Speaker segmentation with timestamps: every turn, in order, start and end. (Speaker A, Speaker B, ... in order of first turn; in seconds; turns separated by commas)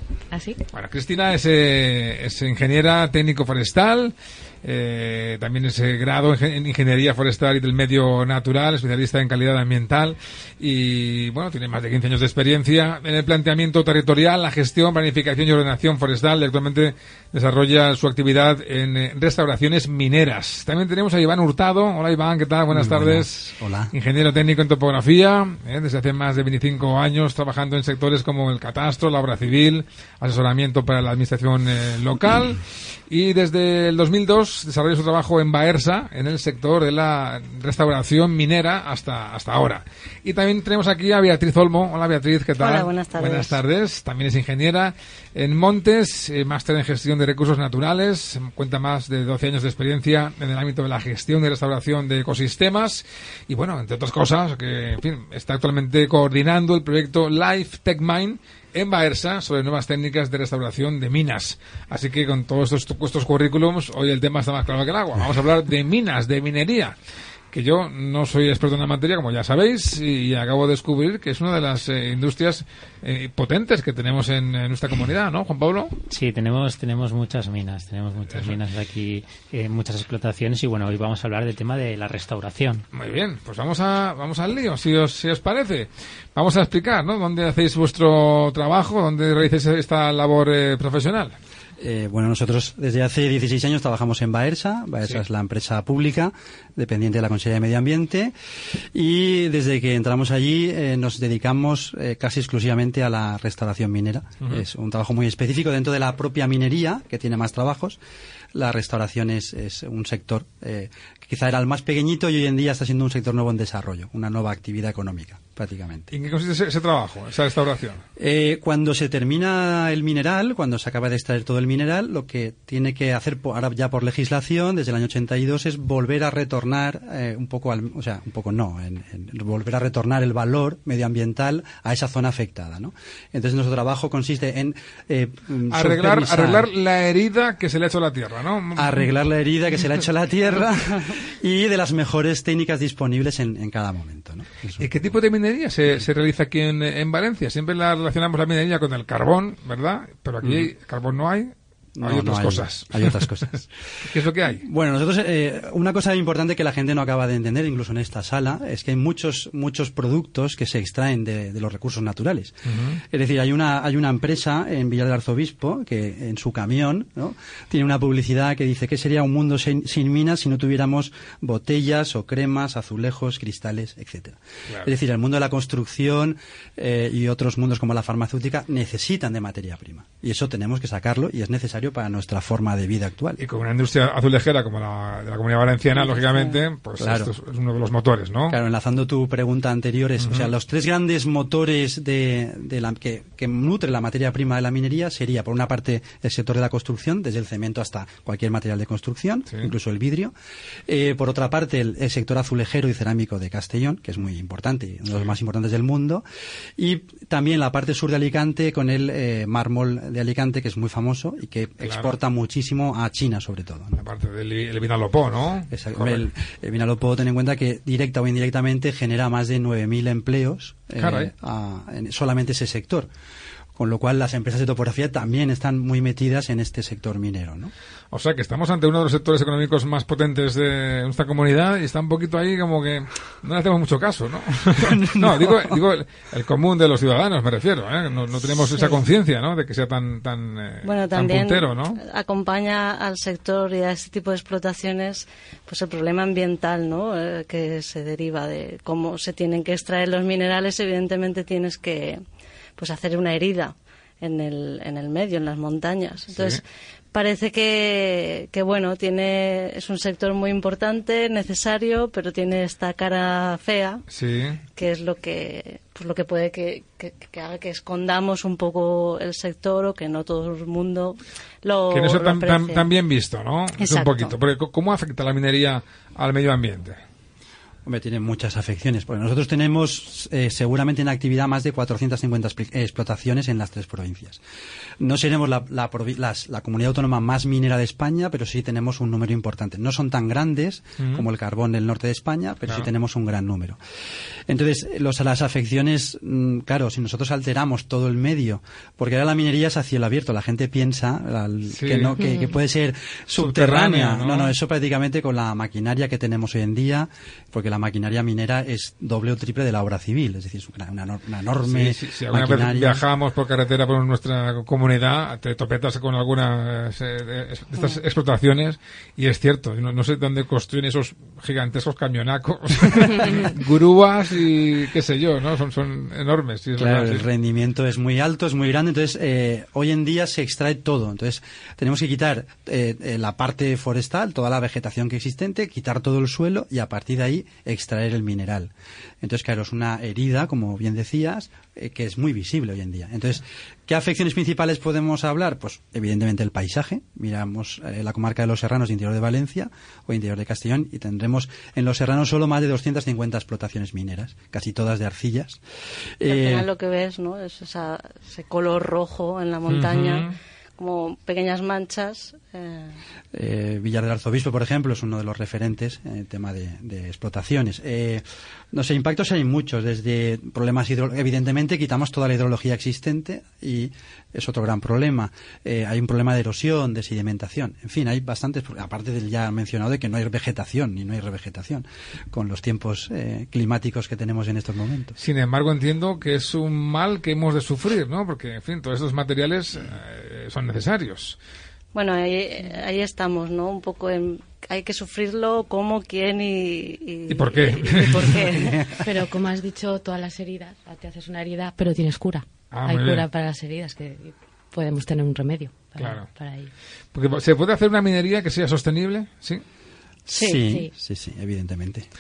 Speaker A: 0.3-0.6, Speaker B: 0.7-66.9, Speaker C: 22.7-23.9, Speaker D: 42.6-43.6, Speaker B: 67.5-76.0, Speaker E: 76.1-82.8, Speaker B: 82.9-91.3, Speaker C: 91.8-98.3, Speaker C: 98.9-108.0, Speaker C: 108.5-116.1, Speaker B: 116.1-118.0, Speaker C: 118.2-136.7, Speaker B: 135.7-139.1, Speaker C: 138.8-144.9, Speaker B: 144.8-154.6, Speaker C: 150.4-150.7, Speaker C: 151.9-153.6, Speaker C: 154.5-162.6, Speaker B: 162.7-163.0, Speaker C: 163.1-183.4, Speaker B: 183.4-188.6, Speaker D: 186.0-186.5, Speaker C: 187.0-187.3, Speaker C: 188.5-200.3, Speaker B: 190.2-190.5, Speaker C: 200.9-206.2, Speaker C: 206.8-214.0, Speaker B: 211.8-212.1, Speaker B: 214.0-216.3, Speaker C: 215.7-223.1, Speaker B: 221.0-221.3, Speaker C: 223.8-227.7, Speaker B: 228.1-242.0, Speaker C: 234.8-235.5, Speaker D: 240.8-252.2, Speaker D: 252.8-256.6, Speaker B: 256.3-256.6, Speaker D: 257.1-264.0, Speaker B: 264.1-264.6, Speaker D: 264.8-272.8, Speaker B: 271.9-276.9, Speaker D: 273.8-274.3, Speaker C: 277.8-284.4, Speaker C: 285.0-293.8, Speaker B: 291.0-291.2, Speaker C: 294.5-313.0, Speaker B: 301.7-302.1, Speaker A: 302.2-302.5, Speaker B: 303.4-304.5, Speaker B: 311.6-327.3, Speaker C: 326.8-355.6, Speaker C: 356.2-356.7, Speaker D: 356.2-363.0, Speaker B: 359.7-360.3, Speaker C: 363.3-385.2, Speaker B: 385.2-391.4, Speaker D: 391.9-398.8, Speaker B: 397.3-398.4, Speaker A: 399.0-406.7, Speaker B: 402.7-403.2, Speaker B: 406.0-406.3, Speaker B: 407.1-409.6, Speaker C: 410.3-412.1, Speaker D: 410.3-410.6